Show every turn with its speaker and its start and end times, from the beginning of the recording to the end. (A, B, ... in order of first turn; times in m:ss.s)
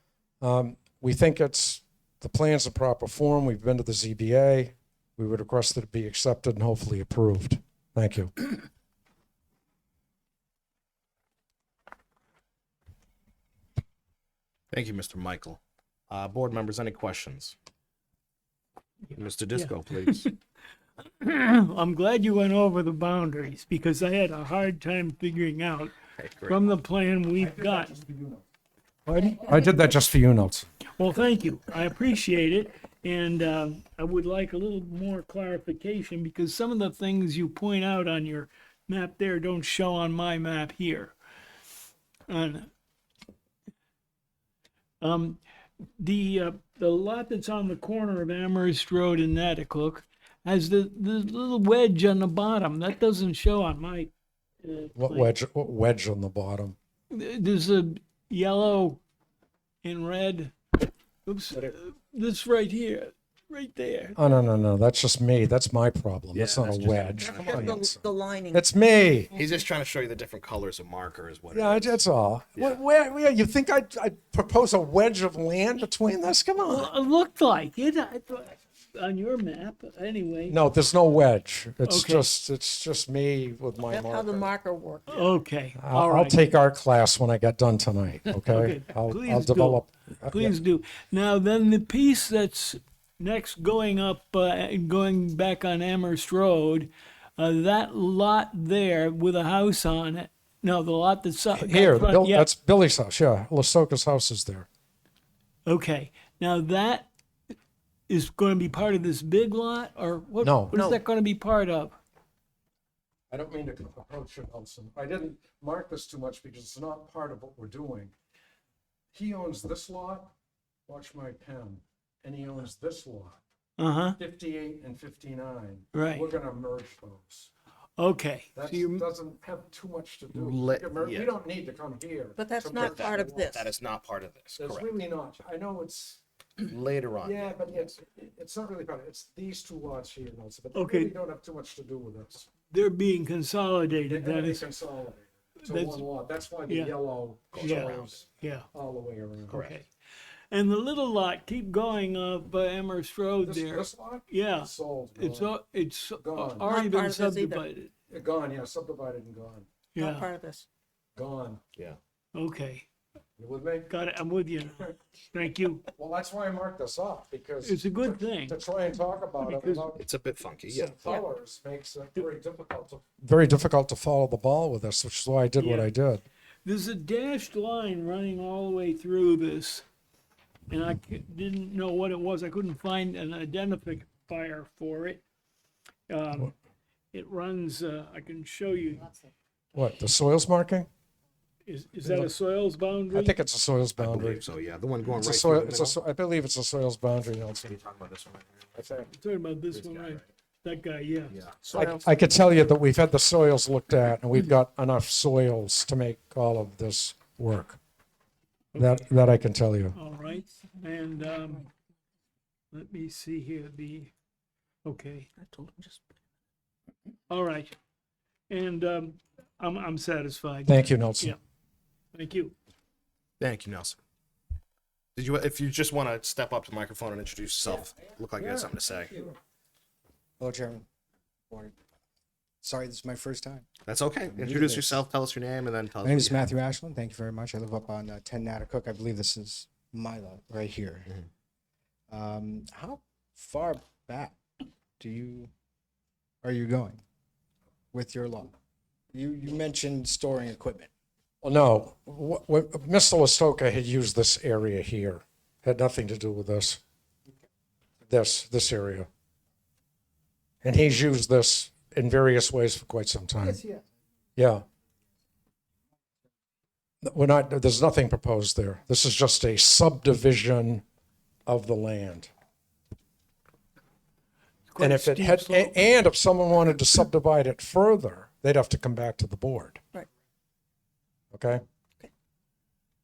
0:00.4-0:08.5 A
0:14.7-0:17.5 B
0:19.1-0:20.3 B
0:19.5-0:20.3 C
0:21.0-0:28.0 C
0:26.1-0:26.7 B
0:27.4-0:28.4 A
0:29.0-0:30.7 A
0:29.1-0:29.6 C
0:31.0-0:41.1 C
0:42.3-0:42.7 C
0:45.0-0:45.4 C
0:46.0-0:55.3 C
0:55.0-0:56.8 A
0:57.1-0:59.0 C
0:59.8-1:00.6 C
1:01.2-1:04.2 C
1:04.2-1:09.3 A
1:06.3-1:07.8 B
1:07.2-1:08.6 D
1:09.3-1:12.0 B
1:11.5-1:16.9 A
1:16.7-1:20.6 C
1:20.5-1:24.5 A
1:21.8-1:22.2 C
1:23.9-1:25.4 D
1:25.1-1:26.4 C
1:25.8-1:30.5 A
1:28.4-1:42.5 C
1:41.5-1:44.7 A
1:45.6-1:47.1 C
1:48.1-1:52.0 C
1:50.4-1:50.8 A
1:50.7-1:51.0 D
1:53.3-1:58.1 A
1:59.1-2:00.3 A
2:00.9-2:03.4 A
2:03.8-2:04.2 C
2:04.2-2:07.5 A
2:05.9-2:06.3 C
2:08.0-2:09.0 C
2:08.5-2:13.5 A
2:10.3-2:11.3 B
2:12.4-2:13.7 D
2:12.7-2:14.9 B
2:14.6-2:16.2 A
2:16.6-2:17.7 B
2:17.2-2:22.5 A
2:20.7-2:21.1 C
2:22.7-2:24.7 C
2:24.1-2:29.7 A
2:25.6-2:26.1 C
2:26.7-2:27.0 C
2:27.5-2:28.3 B
2:27.6-2:28.7 C
2:29.5-2:29.9 C
2:29.5-2:29.8 B
2:30.5-2:37.9 C
2:33.4-2:35.5 A
2:36.2-2:36.7 A
2:36.6-2:37.6 D
2:38.1-2:39.7 A
2:39.9-2:40.3 C
2:40.0-2:40.6 D
2:41.1-2:41.6 A
2:42.3-2:42.9 C
2:43.4-2:43.9 A
2:43.9-2:45.9 C
2:45.9-2:50.0 A
2:47.6-2:48.6 C
2:49.3-2:50.0 C
2:50.0-2:51.0 B
2:50.8-2:56.2 A
2:55.6-2:55.9 C
2:56.6-2:59.8 C
3:00.7-3:05.2 C
3:06.1-3:06.5 C
3:07.1-3:09.1 C
3:09.7-3:10.9 A
3:11.6-3:13.4 C
3:12.0-3:12.3 A
3:13.1-3:14.4 A
3:14.0-3:16.0 B
3:15.2-3:17.7 A
3:17.6-3:18.8 B
3:18.7-3:19.1 A
3:19.1-3:21.4 C
3:19.7-3:20.2 B
3:21.3-3:22.0 B
3:21.7-3:27.8 A
3:21.7-3:22.0 D
3:28.7-3:29.0 C
3:28.8-3:30.0 A
3:29.9-3:31.7 C
3:32.7-3:34.1 C
3:34.8-3:35.3 C
3:35.4-3:36.0 D
3:37.3-3:37.7 C
3:38.5-3:41.4 C
3:40.6-3:41.4 A
3:42.1-3:42.5 C
3:43.4-3:44.0 B
3:45.1-3:49.3 B
3:50.4-3:50.8 E
3:51.5-3:51.7 E
3:52.6-3:53.7 E
3:53.8-3:56.4 B
3:54.2-3:55.0 E
3:56.0-4:01.1 E
4:02.1-4:04.4 E
4:05.0-4:05.5 E
4:06.4-4:07.0 E
4:07.9-4:08.5 E
4:09.1-4:10.9 E
4:11.4-4:16.8 A
4:18.1-4:19.1 A
4:20.6-4:23.6 A
4:23.4-4:23.8 E
4:24.4-4:24.6 A
4:27.0-4:30.8 A
4:31.4-4:32.3 A
4:34.7-4:35.9 C
4:34.8-4:39.8 A
4:41.3-4:41.6 A